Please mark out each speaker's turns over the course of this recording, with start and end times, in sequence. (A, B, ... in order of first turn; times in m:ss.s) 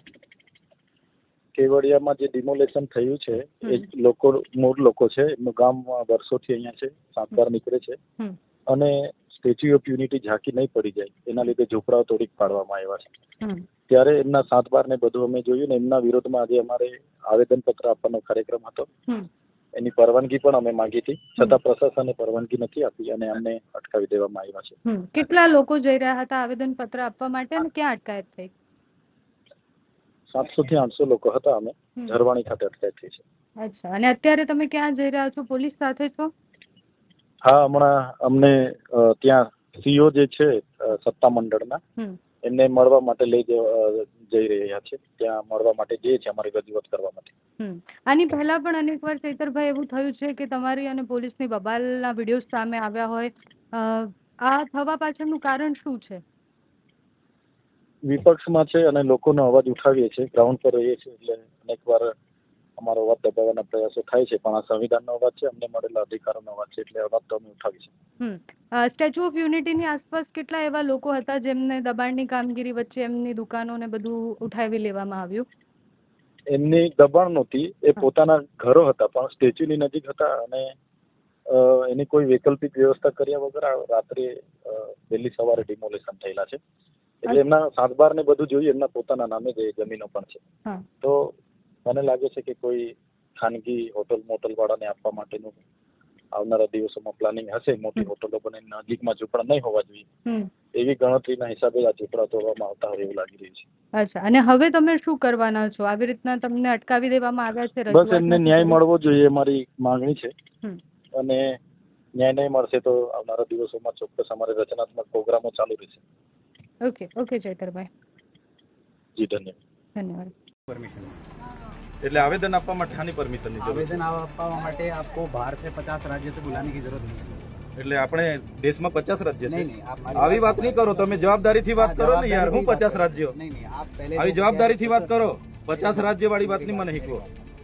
0:01.6-0:08.0 A
0:08.7-0:13.1 A
0:13.9-0:18.9 A
0:19.8-0:24.8 A
0:24.8-0:28.5 B
0:30.3-0:33.2 A
0:33.6-0:36.3 B
0:37.4-0:41.8 A
0:42.4-0:47.3 A
0:47.6-0:56.2 B
0:58.1-1:02.1 A
1:02.8-1:07.9 A
1:08.2-1:15.4 B
1:16.5-1:20.7 A
1:21.5-1:26.6 A
1:27.2-1:30.4 A
1:31.0-1:31.3 A
1:31.8-1:35.6 A
1:36.3-1:40.0 A
1:40.7-1:43.6 A
1:44.0-1:48.8 B
1:47.9-1:50.3 A
1:51.2-1:51.6 A
1:52.2-1:56.0 A
1:56.8-1:57.9 B
1:59.2-1:59.6 A
2:00.0-2:00.3 B
2:00.7-2:01.2 C
2:02.0-2:03.9 D
2:03.6-2:07.4 C
2:07.8-2:13.4 D
2:09.5-2:17.3 C
2:14.1-2:17.2 D